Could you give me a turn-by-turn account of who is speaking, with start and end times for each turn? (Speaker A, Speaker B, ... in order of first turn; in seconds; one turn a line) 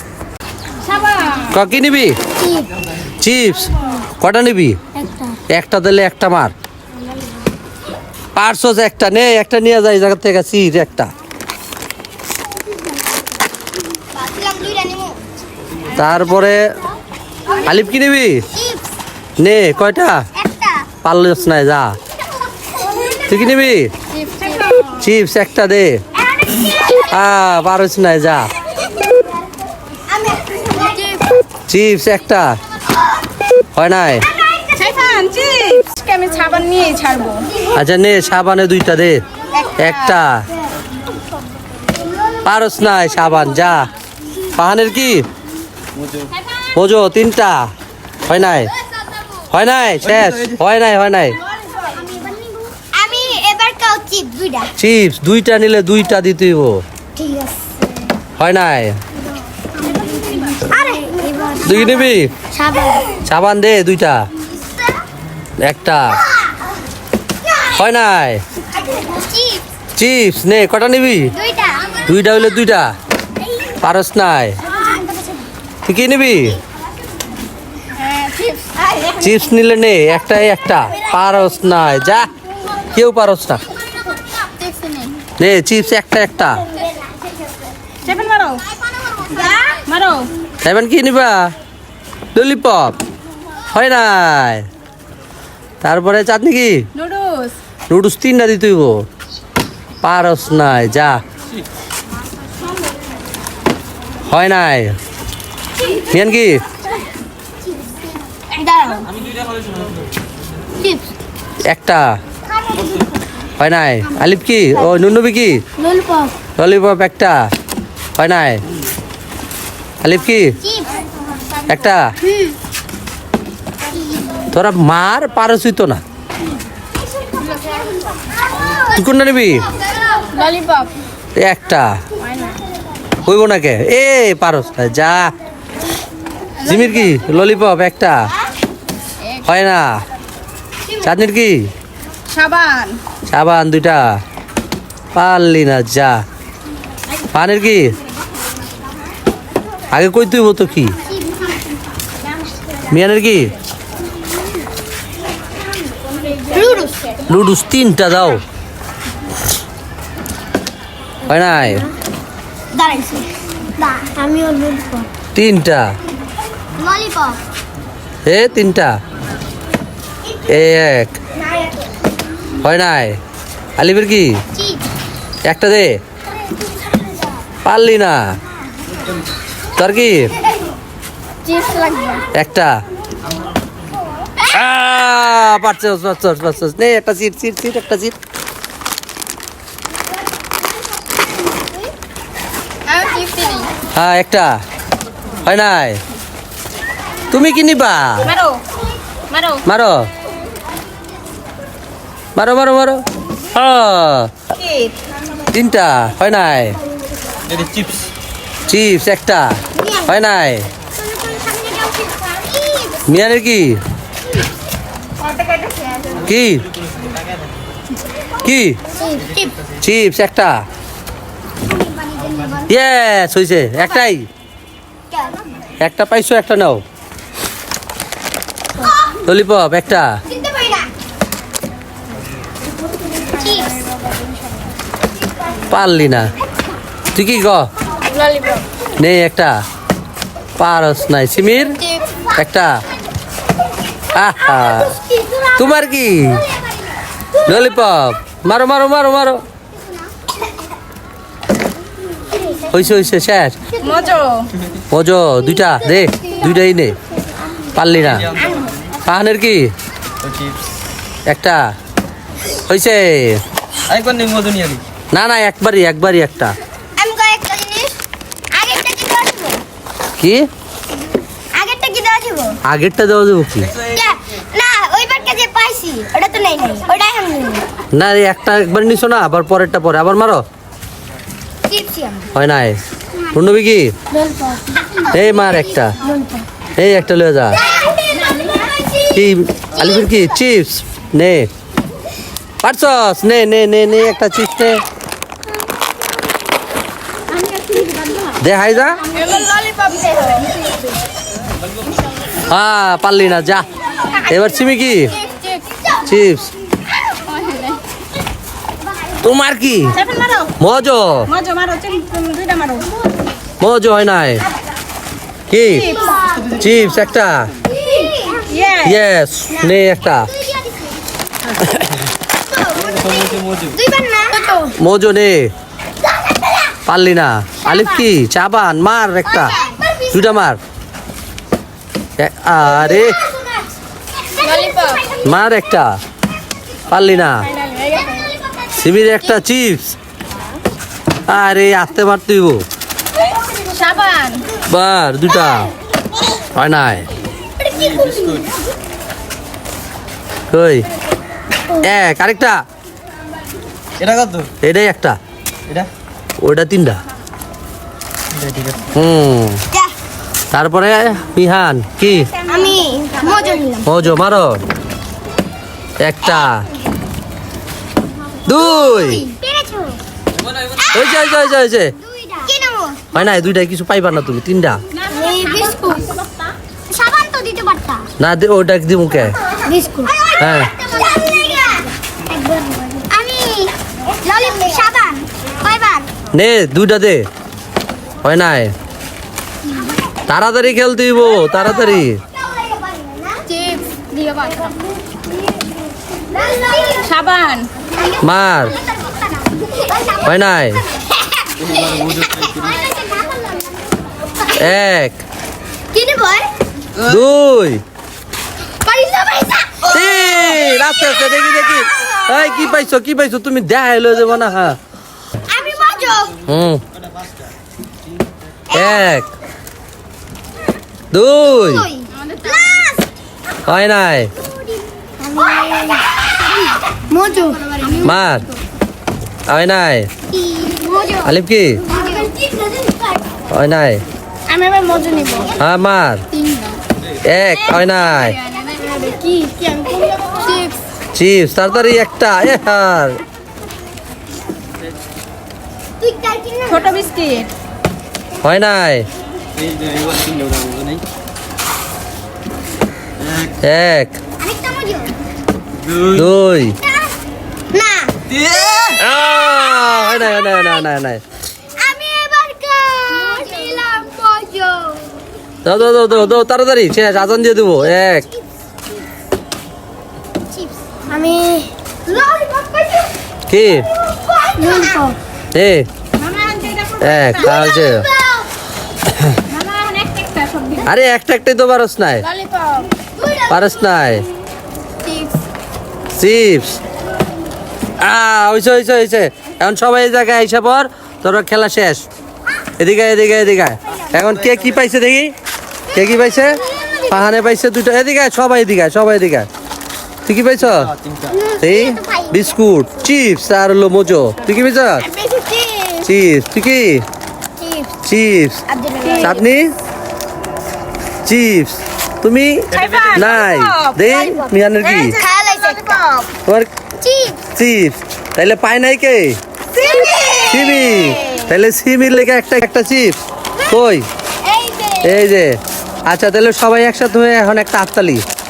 Speaker A: 0.8-1.5
Speaker B: 1.5-2.2
Speaker C: 2.4-2.7
Speaker B: 3.2-4.8
Speaker C: 5.0-5.4
Speaker B: 5.5-6.5
Speaker B: 8.3-11.1
Speaker C: 14.1-15.2
Speaker B: 15.9-16.7
Speaker B: 17.6-18.5
Speaker C: 18.5-18.9
Speaker B: 19.4-20.2
Speaker C: 20.3-20.9
Speaker B: 21.0-22.0
Speaker C: 22.9-23.2
Speaker B: 23.3-23.9
Speaker A: 24.1-24.9
Speaker B: 25.0-26.0
Speaker C: 26.3-27.1
Speaker B: 27.1-28.5
Speaker C: 30.1-30.9
Speaker A: 30.8-31.2
Speaker B: 31.7-32.5
Speaker B: 33.7-34.3
Speaker C: 34.3-35.0
Speaker A: 34.8-37.5
Speaker B: 37.7-39.2
Speaker A: 39.6-40.1
Speaker B: 39.8-40.5
Speaker B: 42.4-43.9
Speaker B: 44.5-45.3
Speaker B: 46.7-47.7
Speaker B: 48.2-48.7
Speaker B: 49.5-51.4
Speaker C: 51.8-54.7
Speaker B: 54.8-56.8
Speaker C: 57.1-57.9
Speaker B: 58.4-59.0
Speaker A: 60.1-60.5
Speaker C: 60.6-63.2
Speaker B: 61.6-62.3
Speaker B: 63.2-64.2
Speaker B: 65.6-66.2
Speaker B: 67.7-68.4
Speaker C: 68.8-69.6
Speaker B: 70.0-71.3
Speaker C: 71.3-72.1
Speaker B: 72.0-72.9
Speaker B: 73.8-74.6
Speaker C: 74.6-75.5
Speaker B: 75.8-76.6
Speaker A: 77.9-78.7
Speaker B: 79.2-82.3
Speaker B: 82.9-83.6
Speaker A: 84.3-85.2
Speaker B: 85.4-86.6
Speaker A: 88.0-88.6
Speaker C: 88.9-89.7
Speaker A: 89.3-90.3
Speaker B: 90.6-91.5
Speaker B: 92.3-93.0
Speaker B: 93.7-94.7
Speaker B: 95.8-96.8
Speaker A: 96.9-97.5
Speaker B: 97.9-99.0
Speaker B: 100.0-101.2
Speaker B: 104.3-105.0
Speaker B: 106.1-106.6
Speaker C: 108.3-109.1
Speaker B: 111.6-112.2
Speaker C: 112.7-113.0
Speaker B: 113.6-115.6
Speaker C: 115.8-116.3
Speaker B: 116.6-117.5
Speaker B: 118.2-118.6
Speaker B: 120.0-120.6
Speaker C: 120.6-120.9
Speaker B: 121.7-122.1
Speaker B: 124.5-126.0
Speaker B: 128.9-129.7
Speaker A: 130.3-130.9
Speaker B: 131.3-132.0
Speaker A: 132.2-132.6
Speaker B: 133.2-135.3
Speaker A: 136.6-137.1
Speaker B: 136.6-138.3
Speaker B: 139.4-140.0
Speaker B: 141.0-141.7
Speaker A: 142.3-143.0
Speaker B: 143.3-144.2
Speaker B: 145.1-146.2
Speaker B: 147.3-147.9
Speaker B: 149.9-150.9
Speaker B: 152.9-153.5
Speaker C: 156.5-157.0
Speaker B: 157.3-158.4
Speaker B: 161.3-161.9
Speaker C: 162.7-165.1
Speaker B: 165.3-165.9
Speaker C: 166.8-167.4
Speaker B: 168.2-168.9
Speaker B: 170.4-171.2
Speaker C: 171.4-171.9
Speaker B: 172.6-173.2
Speaker B: 173.8-174.4
Speaker C: 174.5-174.8
Speaker B: 175.4-176.0
Speaker B: 177.6-178.3
Speaker B: 179.8-180.3
Speaker A: 181.4-182.2
Speaker B: 182.3-182.8
Speaker B: 184.5-188.2
Speaker A: 192.8-193.7
Speaker B: 193.9-194.6
Speaker B: 195.4-196.0
Speaker B: 197.3-198.3
Speaker A: 198.2-198.6
Speaker A: 199.3-199.6
Speaker B: 199.6-200.1
Speaker B: 202.3-204.3
Speaker A: 204.5-205.0
Speaker B: 205.5-206.8
Speaker D: 207.6-207.9
Speaker B: 208.7-210.7
Speaker C: 209.8-210.1
Speaker C: 211.0-213.0
Speaker B: 213.1-213.8
Speaker B: 216.2-216.7
Speaker B: 218.4-218.8
Speaker C: 218.9-219.5
Speaker B: 219.8-220.6
Speaker C: 221.7-222.7
Speaker B: 222.7-224.3
Speaker C: 225.1-225.4
Speaker B: 225.8-226.8
Speaker B: 229.2-230.2
Speaker C: 230.3-230.9
Speaker C: 233.3-233.8
Speaker B: 235.7-236.3
Speaker B: 237.1-237.7
Speaker A: 238.1-238.7
Speaker B: 239.0-239.6
Speaker B: 240.6-241.8
Speaker B: 242.3-242.8
Speaker B: 244.1-244.9
Speaker C: 245.0-245.5
Speaker B: 245.5-246.5
Speaker B: 247.4-249.4
Speaker C: 252.3-252.6
Speaker B: 252.7-253.6
Speaker A: 253.8-254.5
Speaker B: 254.9-257.0
Speaker B: 257.7-258.4
Speaker C: 258.4-258.7
Speaker B: 259.0-259.7
Speaker B: 261.3-261.6
Speaker B: 262.7-263.4
Speaker D: 263.9-264.8
Speaker B: 265.1-266.5
Speaker C: 267.0-268.0
Speaker C: 268.5-269.6
Speaker B: 270.2-270.5
Speaker C: 271.5-272.6
Speaker B: 272.6-273.7
Speaker C: 273.8-277.6
Speaker B: 277.9-280.4
Speaker C: 281.7-282.3
Speaker B: 282.3-282.8
Speaker B: 283.3-283.9
Speaker B: 285.1-285.9
Speaker C: 286.0-286.4
Speaker B: 286.8-287.6
Speaker C: 287.7-288.6
Speaker B: 289.1-291.5
Speaker B: 292.6-294.8
Speaker A: 297.5-298.3
Speaker B: 298.4-299.0
Speaker A: 299.0-300.6
Speaker B: 302.4-303.6
Speaker B: 304.2-305.1
Speaker A: 305.1-305.6
Speaker B: 306.0-306.5
Speaker A: 307.1-307.8
Speaker B: 309.2-310.0
Speaker A: 309.9-310.5
Speaker B: 310.6-311.3
Speaker A: 311.3-312.9
Speaker B: 313.6-314.4
Speaker B: 315.5-315.9
Speaker A: 315.8-316.2
Speaker C: 315.9-316.5
Speaker B: 316.6-317.5
Speaker C: 317.6-318.5
Speaker A: 318.4-319.0
Speaker B: 318.8-320.3
Speaker C: 319.5-320.9
Speaker C: 322.3-324.5
Speaker D: 322.9-323.7
Speaker A: 324.4-324.7
Speaker B: 324.8-325.5
Speaker B: 326.9-329.6
Speaker C: 329.2-330.4
Speaker B: 330.1-330.6
Speaker B: 332.2-333.2
Speaker C: 332.7-333.6
Speaker A: 334.4-335.0
Speaker C: 334.4-335.3
Speaker B: 335.2-336.0
Speaker B: 336.9-337.5
Speaker A: 337.4-338.3
Speaker C: 338.1-338.6
Speaker B: 338.8-339.9
Speaker B: 341.3-342.6
Speaker A: 343.4-344.5
Speaker B: 344.7-345.7
Speaker B: 346.5-347.1
Speaker D: 347.8-348.4
Speaker B: 350.5-350.8
Speaker B: 351.8-352.6
Speaker D: 354.0-354.5
Speaker B: 354.6-355.2
Speaker B: 356.4-357.0
Speaker B: 358.9-359.6
Speaker B: 360.5-362.3
Speaker C: 362.4-363.9
Speaker B: 363.8-364.6
Speaker B: 366.0-366.6
Speaker B: 368.4-369.3
Speaker C: 368.4-370.0
Speaker C: 370.6-373.2
Speaker B: 370.9-371.9
Speaker B: 373.1-374.8
Speaker A: 375.0-376.2
Speaker C: 375.1-376.1
Speaker C: 376.9-378.1
Speaker B: 378.2-379.3
Speaker C: 379.6-386.1
Speaker B: 380.4-380.7
Speaker B: 386.3-387.3
Speaker B: 388.2-388.7
Speaker B: 390.3-392.2
Speaker C: 392.4-393.4
Speaker A: 393.5-394.8
Speaker C: 396.3-397.1
Speaker A: 396.9-397.7
Speaker C: 397.9-398.2
Speaker B: 398.2-398.8
Speaker C: 398.7-400.4
Speaker B: 400.2-400.8
Speaker C: 401.2-401.8
Speaker D: 401.6-402.7
Speaker C: 402.3-404.0
Speaker B: 404.5-405.2
Speaker C: 405.9-406.5
Speaker B: 407.0-407.8
Speaker C: 408.8-412.4
Speaker B: 409.8-414.8
Speaker C: 415.5-416.4
Speaker B: 416.4-416.8
Speaker C: 418.7-419.1
Speaker B: 418.7-419.3
Speaker B: 421.1-421.9
Speaker C: 421.5-423.1
Speaker A: 422.2-422.7
Speaker B: 423.6-424.3
Speaker C: 424.4-426.1
Speaker C: 426.9-428.1
Speaker A: 427.2-428.2
Speaker B: 428.0-428.5
Speaker B: 429.5-430.1
Speaker C: 430.3-431.1
Speaker A: 430.9-431.2
Speaker B: 431.2-431.8
Speaker C: 431.9-432.9
Speaker B: 433.5-434.0
Speaker A: 434.5-435.6
Speaker B: 435.6-436.2
Speaker A: 436.3-436.8
Speaker B: 437.2-438.4
Speaker A: 438.1-440.8
Speaker B: 441.1-443.2
Speaker C: 446.0-447.0
Speaker A: 446.7-447.5
Speaker B: 448.4-449.1
Speaker D: 449.7-451.0
Speaker B: 453.6-454.2
Speaker C: 454.4-455.1
Speaker B: 456.1-456.8
Speaker C: 456.9-457.1
Speaker C: 457.7-458.1
Speaker D: 458.4-458.9
Speaker B: 458.9-461.2
Speaker C: 459.8-460.7
Speaker C: 461.8-465.2
Speaker B: 465.6-468.2
Speaker C: 468.0-468.4
Speaker C: 470.5-473.1
Speaker B: 473.5-473.9
Speaker C: 474.0-475.2
Speaker B: 475.5-475.9
Speaker A: 476.2-477.6
Speaker B: 477.0-478.1
Speaker C: 477.5-478.1
Speaker B: 479.1-479.4
Speaker A: 479.4-480.9
Speaker B: 480.8-482.2
Speaker A: 482.2-482.9
Speaker C: 483.2-483.7
Speaker B: 483.5-484.2
Speaker A: 485.0-485.4
Speaker B: 486.1-486.8
Speaker B: 488.0-492.0
Speaker B: 492.8-495.3
Speaker B: 495.9-499.5
Speaker B: 500.2-500.9
Speaker D: 501.0-501.3
Speaker C: 501.3-502.6
Speaker B: 501.6-505.1
Speaker A: 505.0-506.1
Speaker B: 506.0-507.0
Speaker C: 507.6-507.9
Speaker B: 508.0-508.6
Speaker C: 508.7-509.4
Speaker A: 509.0-509.3
Speaker B: 509.2-509.7
Speaker B: 511.2-515.2
Speaker A: 512.7-516.3
Speaker D: 512.8-513.1
Speaker C: 514.1-514.5
Speaker C: 515.1-516.0
Speaker C: 517.0-517.4
Speaker B: 517.5-519.4
Speaker A: 519.7-521.3
Speaker C: 519.8-521.2
Speaker B: 520.5-524.0
Speaker C: 524.4-525.3
Speaker B: 525.0-528.2